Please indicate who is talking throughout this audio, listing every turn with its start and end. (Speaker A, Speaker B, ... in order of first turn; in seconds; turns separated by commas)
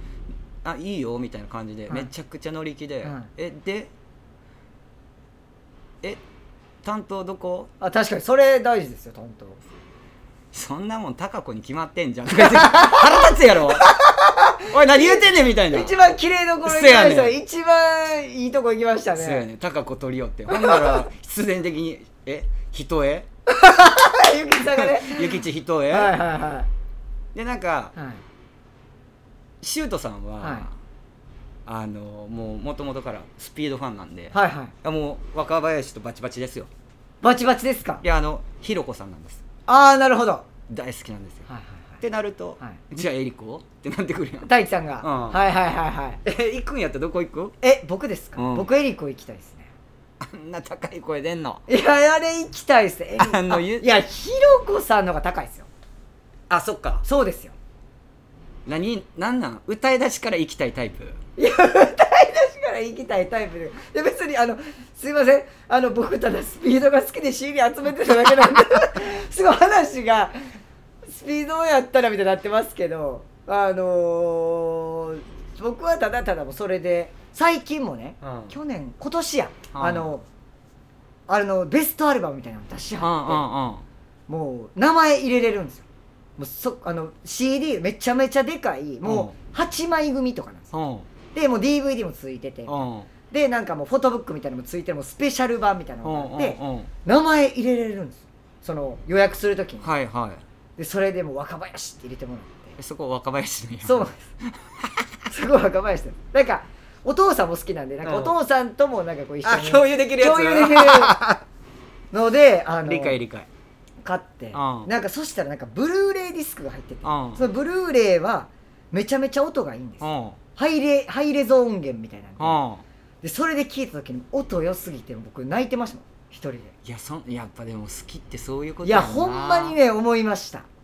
Speaker A: 0.6-3.9, Speaker A: 6.8-7.7, Speaker B: 7.8-9.6, Speaker A: 10.5-13.9, Speaker B: 12.4-13.0, Speaker B: 13.6-19.4, Speaker A: 14.7-15.9, Speaker A: 16.6-17.4, Speaker A: 19.2-23.3, Speaker B: 20.5-20.9, Speaker B: 23.5-26.7, Speaker A: 24.8-26.1, Speaker A: 27.3-27.9, Speaker B: 27.9-28.2, Speaker A: 29.6-30.7, Speaker B: 30.4-30.7, Speaker A: 31.7-36.7, Speaker B: 34.3-34.7, Speaker B: 37.2-38.0, Speaker A: 38.0-39.4, Speaker B: 39.7-40.5, Speaker A: 40.7-41.5, Speaker B: 41.5-42.0, Speaker A: 42.0-45.4, Speaker B: 44.5-46.2, Speaker A: 46.2-47.5, Speaker B: 47.6-49.7, Speaker A: 48.4-48.7, Speaker A: 50.2-51.6, Speaker B: 51.7-55.7, Speaker A: 53.2-53.9, Speaker A: 56.5-57.0, Speaker B: 57.0-57.5, Speaker A: 58.7-61.2, Speaker B: 61.4-70.4, Speaker B: 71.1-80.2, Speaker A: 78.2-78.5, Speaker A: 79.7-80.1, Speaker B: 81.3-83.4, Speaker A: 83.0-83.8, Speaker B: 84.3-85.8, Speaker B: 86.4-90.7, Speaker A: 89.0-89.3, Speaker A: 90.7-91.1, Speaker B: 91.3-99.9, Speaker A: 92.7-93.1, Speaker A: 96.0-96.9, Speaker A: 99.8-100.4, Speaker B: 100.8-102.8, Speaker A: 102.8-105.3, Speaker B: 103.8-104.2, Speaker B: 105.3-111.2, Speaker A: 108.0-108.3, Speaker A: 109.4-111.4, Speaker B: 112.1-113.2, Speaker A: 112.8-113.5, Speaker B: 114.0-122.6, Speaker A: 114.5-114.9, Speaker A: 117.0-117.4, Speaker A: 120.0-120.4, Speaker A: 122.4-122.8, Speaker B: 123.2-126.7, Speaker A: 126.8-129.8, Speaker B: 128.8-130.7